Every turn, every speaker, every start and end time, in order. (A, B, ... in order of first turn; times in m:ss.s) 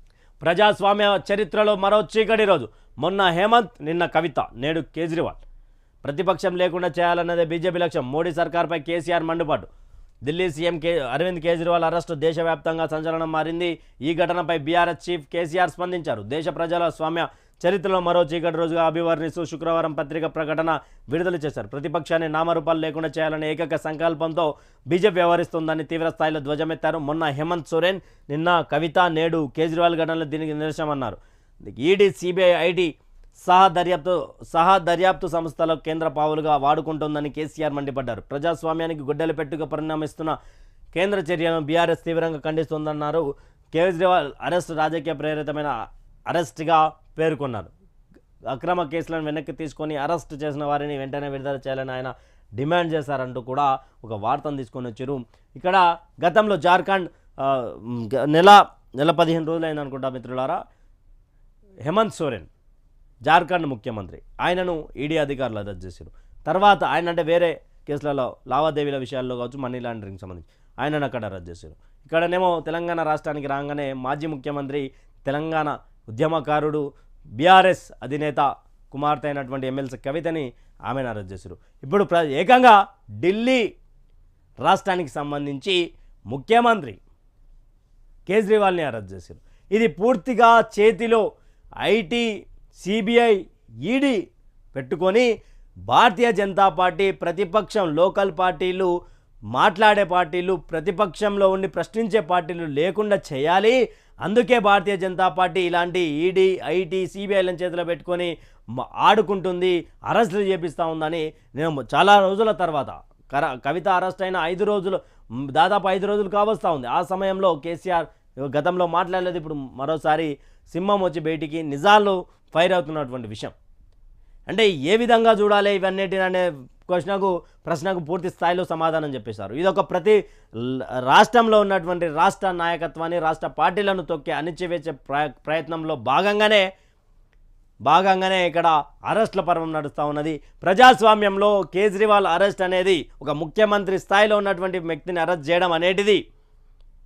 0:00.4-0:05.4 A
0:06.0-0:09.7 A
0:10.2-0:32.9 A
0:33.4-0:40.4 A
0:40.9-0:45.7 A
0:46.3-0:47.7 A
0:48.5-1:00.6 A
1:01.8-1:02.5 A
1:03.2-1:16.8 A
1:17.4-1:23.6 A
1:24.6-1:25.8 A
1:26.3-1:27.0 A
1:28.3-1:31.2 A
1:31.8-1:34.2 A
1:34.7-1:35.3 A
1:35.9-1:38.9 A
1:39.5-2:03.5 A
2:04.5-2:16.6 A
2:17.9-2:26.2 A